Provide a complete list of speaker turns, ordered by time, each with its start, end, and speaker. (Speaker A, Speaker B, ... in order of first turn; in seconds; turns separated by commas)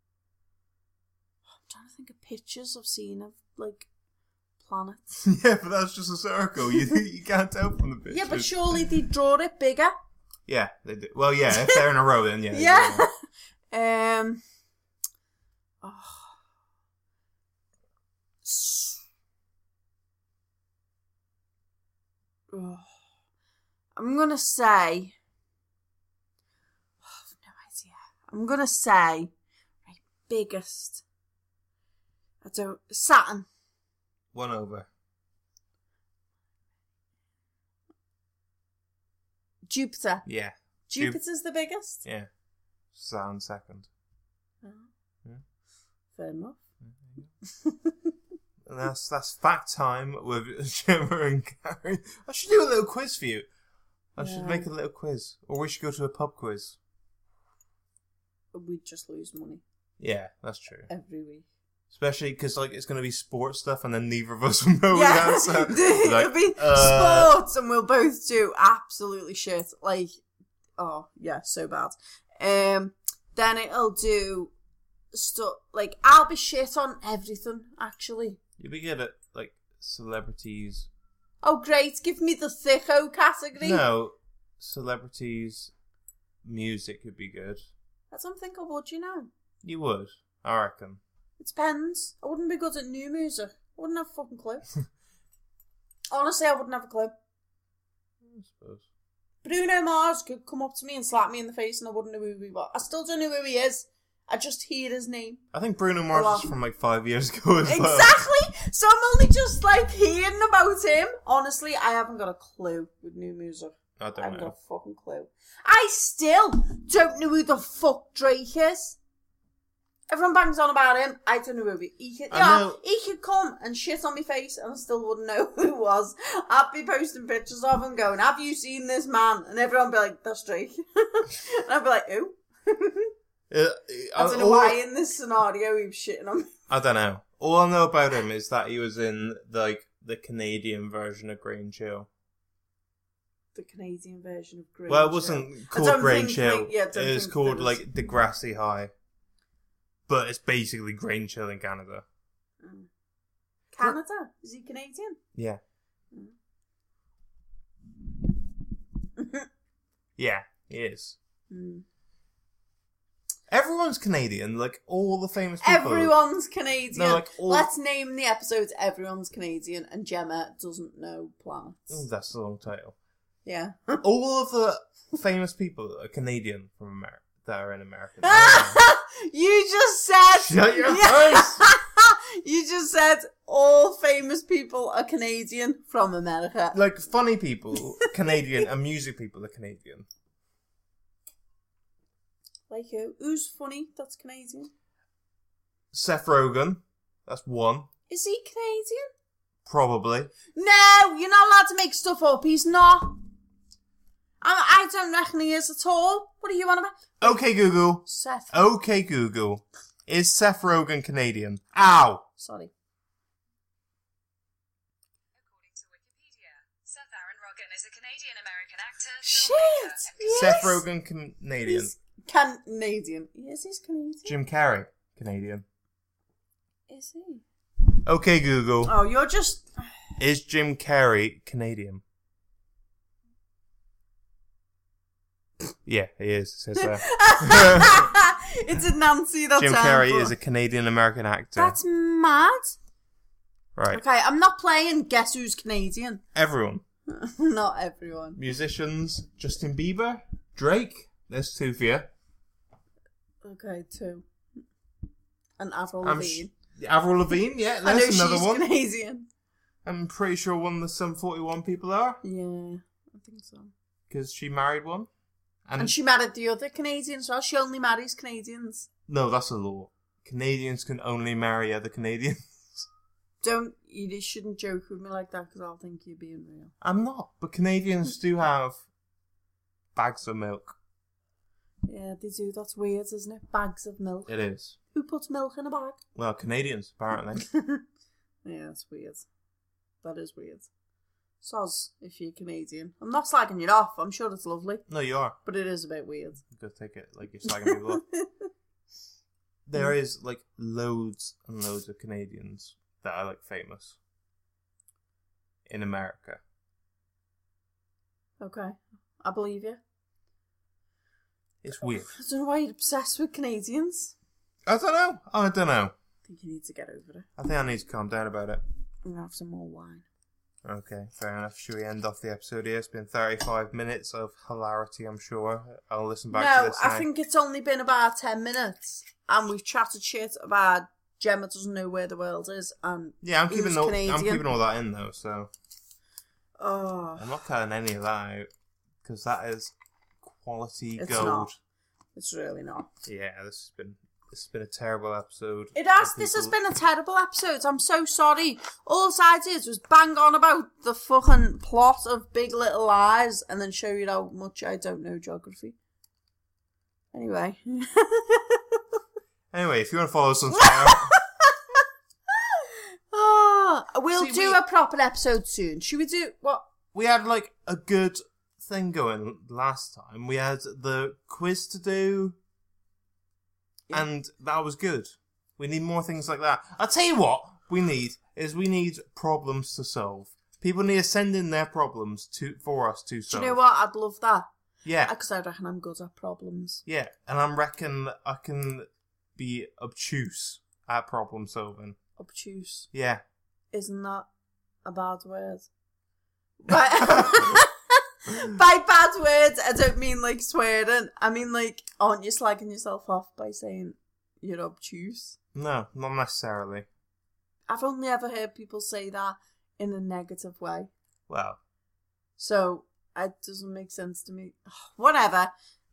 Speaker A: 1.6-3.9, Speaker A: 4.6-5.2, Speaker B: 5.2-8.8, Speaker A: 8.1-9.9, Speaker B: 10.5-13.1, Speaker A: 11.5-11.8, Speaker A: 12.5-13.1, Speaker A: 13.7-14.4, Speaker A: 15.8-16.4, Speaker A: 18.4-19.0, Speaker A: 22.5-22.9, Speaker A: 23.9-25.1, Speaker A: 27.0-29.3, Speaker A: 29.9-31.0, Speaker A: 32.4-33.5, Speaker B: 34.3-34.9, Speaker A: 39.7-40.2, Speaker B: 40.2-41.2, Speaker A: 40.9-42.0, Speaker B: 42.0-42.3, Speaker B: 42.9-43.9, Speaker A: 44.6-44.9, Speaker A: 46.1-46.6, Speaker A: 47.4-48.1, Speaker B: 48.6-53.5, Speaker B: 54.1-56.8, Speaker A: 54.2-54.7, Speaker A: 58.5-59.6, Speaker B: 60.0-60.9, Speaker A: 60.9-61.5, Speaker B: 61.9-67.3, Speaker A: 64.9-70.2, Speaker A: 70.8-74.5, Speaker A: 75.1-78.4, Speaker B: 78.6-80.9, Speaker A: 81.4-83.8, Speaker B: 83.6-85.7, Speaker B: 86.4-87.7, Speaker A: 88.1-89.3, Speaker B: 89.6-91.0, Speaker A: 91.4-94.7, Speaker A: 96.1-97.1, Speaker B: 98.2-98.8, Speaker A: 99.4-105.4, Speaker B: 105.5-108.2, Speaker A: 106.1-106.5, Speaker A: 107.6-119.0, Speaker B: 114.0-114.5, Speaker A: 120.1-133.1, Speaker B: 122.3-122.8, Speaker B: 133.5-134.8, Speaker A: 134.2-136.5, Speaker B: 136.7-142.1, Speaker A: 143.5-147.8, Speaker B: 144.9-148.9, Speaker B: 150.1-152.0, Speaker A: 152.6-152.9, Speaker A: 153.7-155.2, Speaker B: 155.3-155.6, Speaker A: 159.2-159.5, Speaker B: 160.2-161.2, Speaker A: 161.5-161.8, Speaker B: 163.5-166.1, Speaker A: 165.6-172.0, Speaker B: 166.9-167.7, Speaker B: 171.9-172.9, Speaker A: 173.4-174.0, Speaker B: 174.0-178.8, Speaker A: 178.2-186.8, Speaker B: 180.4-181.6, Speaker B: 186.7-190.1, Speaker A: 192.7-194.7, Speaker B: 195.9-197.9, Speaker A: 198.1-199.1, Speaker B: 199.7-200.3, Speaker A: 200.5-203.2, Speaker A: 204.4-207.4, Speaker B: 207.2-212.2, Speaker A: 208.0-208.5, Speaker A: 212.4-212.7, Speaker C: 215.4-220.7, Speaker A: 219.2-220.8, Speaker B: 220.3-221.9, Speaker A: 221.6-224.3, Speaker B: 224.2-225.6, Speaker A: 226.9-227.4, Speaker B: 228.0-228.9, Speaker A: 228.8-229.7, Speaker B: 230.2-232.0, Speaker B: 235.8-238.1, Speaker A: 236.7-240.3, Speaker B: 239.6-241.8, Speaker A: 241.6-242.7, Speaker B: 243.7-244.0, Speaker A: 243.9-246.2, Speaker B: 246.3-246.8, Speaker A: 247.1-248.4, Speaker B: 248.4-252.1, Speaker A: 253.4-254.3, Speaker A: 255.6-256.5, Speaker B: 256.0-258.6, Speaker A: 257.8-259.3, Speaker B: 259.8-262.2, Speaker A: 262.2-263.7, Speaker B: 264.1-265.1, Speaker B: 265.7-265.9, Speaker A: 265.8-268.9, Speaker B: 269.1-272.9, Speaker A: 273.4-276.7, Speaker B: 276.8-278.8, Speaker B: 279.9-280.8, Speaker A: 281.9-284.3, Speaker B: 284.3-284.8, Speaker A: 284.9-286.0, Speaker B: 286.1-287.5, Speaker A: 287.4-287.8, Speaker A: 288.4-289.2, Speaker A: 290.0-290.7, Speaker A: 291.4-294.8, Speaker B: 294.9-295.4, Speaker A: 295.4-296.4, Speaker B: 296.5-298.0, Speaker A: 297.5-298.2, Speaker B: 299.6-304.0, Speaker B: 305.7-306.4, Speaker A: 308.4-309.8, Speaker B: 311.6-312.1, Speaker A: 311.8-314.1, Speaker B: 314.6-315.9, Speaker A: 316.2-317.3, Speaker B: 317.4-318.6, Speaker A: 319.0-320.0, Speaker B: 320.6-327.1, Speaker A: 326.3-334.4, Speaker B: 333.2-335.5, Speaker A: 336.6-337.3, Speaker B: 337.2-338.5, Speaker B: 339.0-341.6, Speaker A: 341.0-341.5, Speaker A: 342.1-342.9, Speaker B: 343.0-346.5, Speaker A: 345.7-355.8, Speaker A: 357.1-358.8, Speaker B: 359.5-361.1, Speaker A: 360.5-366.7, Speaker B: 364.1-364.6, Speaker B: 366.9-372.4, Speaker B: 373.9-383.6, Speaker A: 383.3-384.5, Speaker B: 384.8-385.1, Speaker A: 385.0-386.8, Speaker B: 386.9-392.0, Speaker A: 392.2-392.9, Speaker B: 392.9-393.2, Speaker A: 393.7-394.3, Speaker A: 394.8-395.7, Speaker A: 396.6-405.4, Speaker B: 396.7-397.6, Speaker B: 405.5-406.9, Speaker A: 407.7-410.9, Speaker B: 411.3-411.6, Speaker A: 412.4-415.5